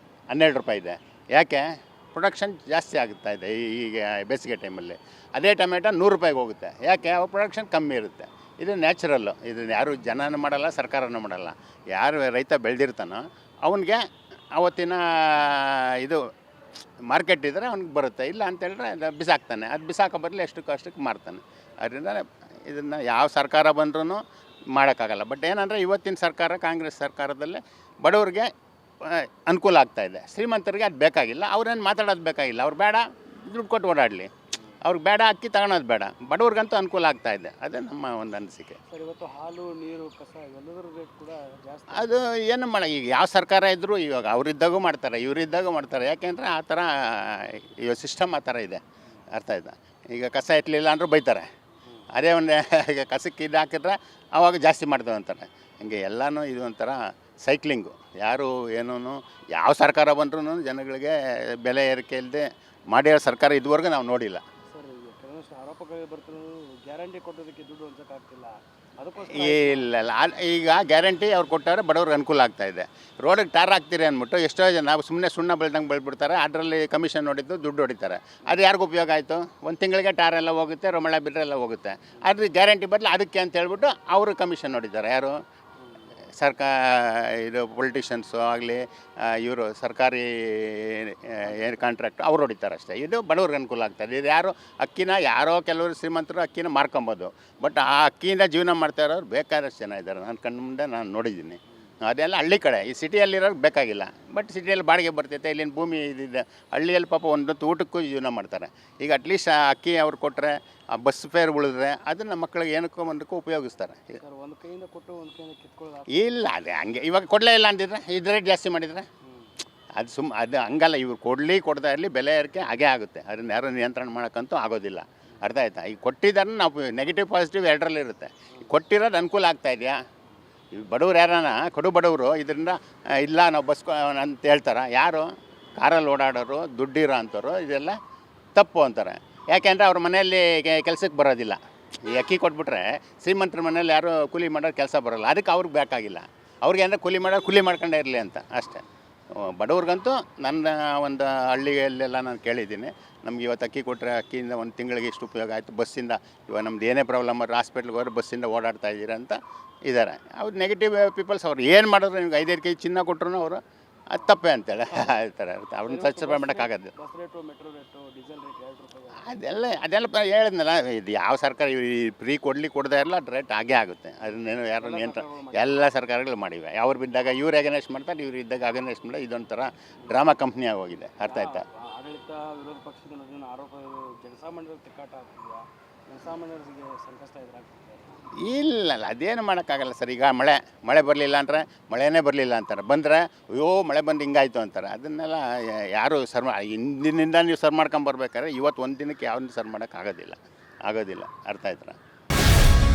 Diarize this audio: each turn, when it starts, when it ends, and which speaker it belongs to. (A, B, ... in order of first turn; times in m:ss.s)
0:00.3-0:14.0 A
0:14.6-0:16.2 A
0:17.1-0:24.2 A
0:24.7-0:34.3 A
0:34.8-0:38.8 A
0:38.9-0:42.1 B
0:41.9-0:51.5 A
0:52.1-1:04.4 A
1:04.7-1:09.9 B
1:09.3-1:25.4 A
1:25.8-1:26.1 B
1:26.4-1:54.2 A
1:54.2-1:56.3 B
1:56.1-1:59.1 A
1:59.2-1:59.5 B
2:00.0-2:10.0 A
2:10.7-2:18.0 A
2:18.6-2:28.8 A
2:29.3-2:46.9 A
2:45.9-2:49.8 B
2:49.2-3:01.6 A
2:54.8-2:55.8 B
3:01.2-3:08.2 B
3:08.4-3:22.0 A